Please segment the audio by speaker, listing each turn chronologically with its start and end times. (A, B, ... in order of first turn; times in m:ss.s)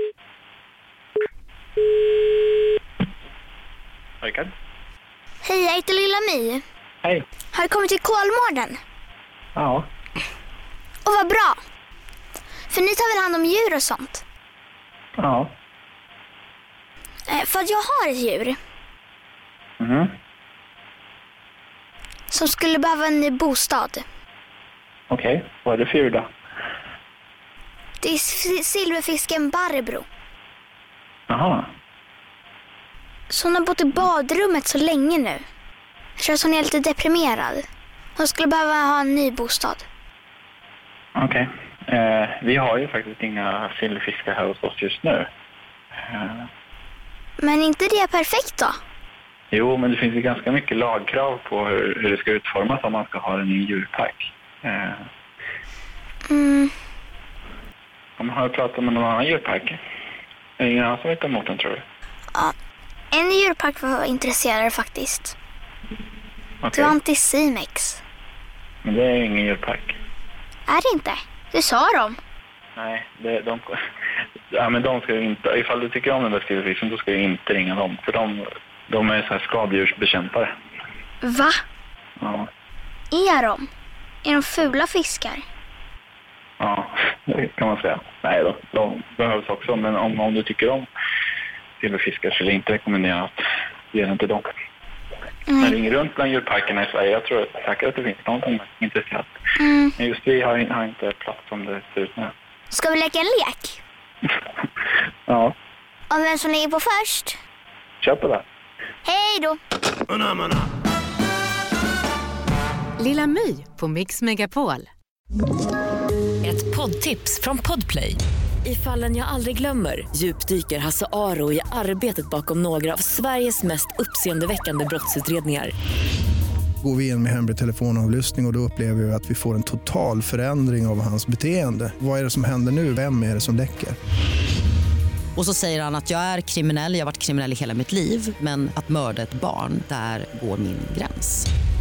0:04.2-0:04.5 A
0:05.4-0:06.6 B
0:07.5-0:08.8 B
0:09.5-0:09.9 A
0:11.0-0:11.6 B
0:12.7-0:14.2 B
0:15.2-0:15.5 A
0:17.3-0:18.5 B
0:19.8-0:20.1 A
0:22.3-0:24.0 B
0:25.1-0:26.3 A
0:28.0-0:30.0 B
0:31.3-0:31.7 A
0:33.3-0:35.4 B
0:36.2-0:37.6 B
0:38.2-0:39.8 B
0:41.2-0:45.3 A
0:46.0-0:46.5 A
0:47.4-0:48.8 B
0:49.5-0:55.1 A
0:56.3-0:56.7 B
0:58.2-0:59.8 A
1:00.6-1:01.8 A
1:03.1-1:05.4 B
1:06.6-1:06.9 A
1:06.7-1:08.0 B
1:08.8-1:10.0 A
1:10.7-1:12.2 B
1:12.8-1:13.8 A
1:14.5-1:20.5 A
1:21.2-1:21.6 B
1:22.2-1:22.5 A
1:23.1-1:23.6 B
1:24.2-1:25.4 B
1:26.6-1:30.9 A
1:31.8-1:33.4 A
1:33.9-1:34.5 A
1:35.5-1:35.8 B
1:35.6-1:39.3 A
1:39.6-1:39.9 B
1:40.0-1:42.3 A
1:42.7-1:43.8 B
1:45.3-1:45.5 A
1:46.1-1:47.4 B
1:48.0-1:48.4 A
1:49.0-1:49.6 B
1:53.0-1:54.9 C
1:56.4-2:05.7 D
2:06.8-2:14.0 E
2:15.4-2:21.5 F